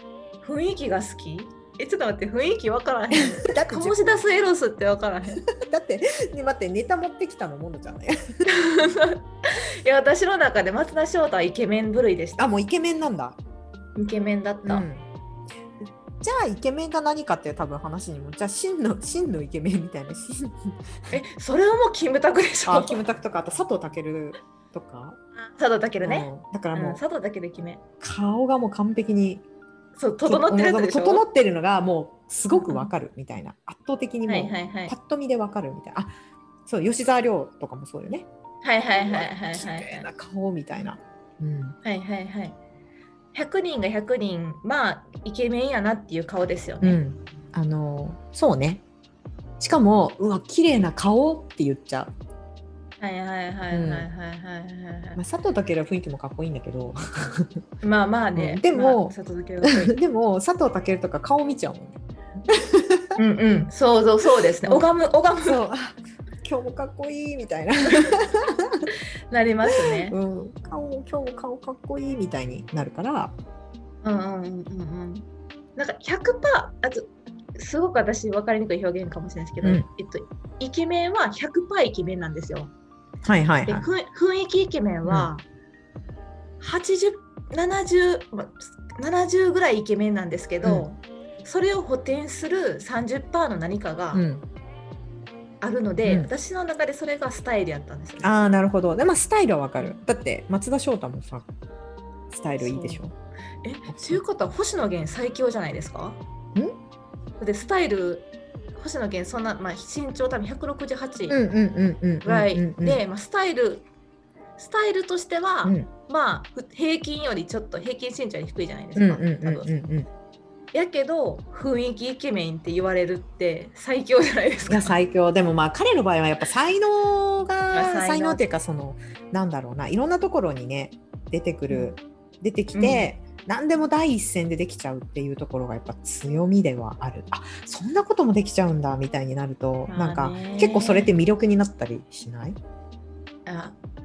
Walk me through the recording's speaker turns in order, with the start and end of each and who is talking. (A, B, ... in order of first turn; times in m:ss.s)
0:00.4-0:05.4 A
0:03.2-0:04.0 B
0:05.3-0:08.2 B
0:08.5-0:12.5 A
0:12.4-0:13.4 B
0:14.0-0:14.9 A
0:14.6-0:15.0 B
0:15.8-0:21.1 B
0:21.1-0:23.0 A
0:22.6-0:25.2 B
0:25.4-0:27.8 A
0:26.0-0:27.0 B
0:28.0-0:29.4 B
0:30.0-0:31.2 A
0:30.2-0:36.1 B
0:32.5-0:32.9 A
0:34.2-0:34.9 A
0:36.6-0:38.2 B
0:38.6-0:40.1 A
0:38.9-0:41.8 B
0:41.8-0:42.6 A
0:43.3-0:47.0 A
0:46.8-0:48.8 B
0:49.6-0:52.1 B
0:53.0-0:55.2 A
0:53.7-0:54.1 B
0:55.2-0:57.6 B
0:57.8-0:59.9 A
0:58.3-1:03.2 B
1:03.2-1:05.6 A
1:05.4-1:08.9 B
1:09.3-1:10.1 A
1:09.6-1:13.3 B
1:14.0-1:22.7 A
1:23.2-1:23.9 B
1:23.7-1:25.4 A
1:25.0-1:25.3 B
1:26.6-1:34.2 A
1:34.1-1:34.4 B
1:35.6-1:38.3 A
1:36.0-1:36.3 B
1:38.2-1:41.5 B
1:42.3-1:43.1 B
1:42.6-1:43.0 A
1:43.6-1:46.2 A
1:43.9-1:44.2 B
1:47.4-1:51.4 A
1:51.3-1:53.0 B
1:52.2-1:53.8 A
1:54.6-1:59.7 A
1:55.6-1:55.9 B
1:59.0-2:00.1 B
2:00.7-2:04.9 A
2:04.7-2:22.6 B
2:07.7-2:08.4 A
2:11.7-2:11.9 A
2:12.7-2:13.1 A
2:19.9-2:21.1 A
2:23.4-2:23.7 A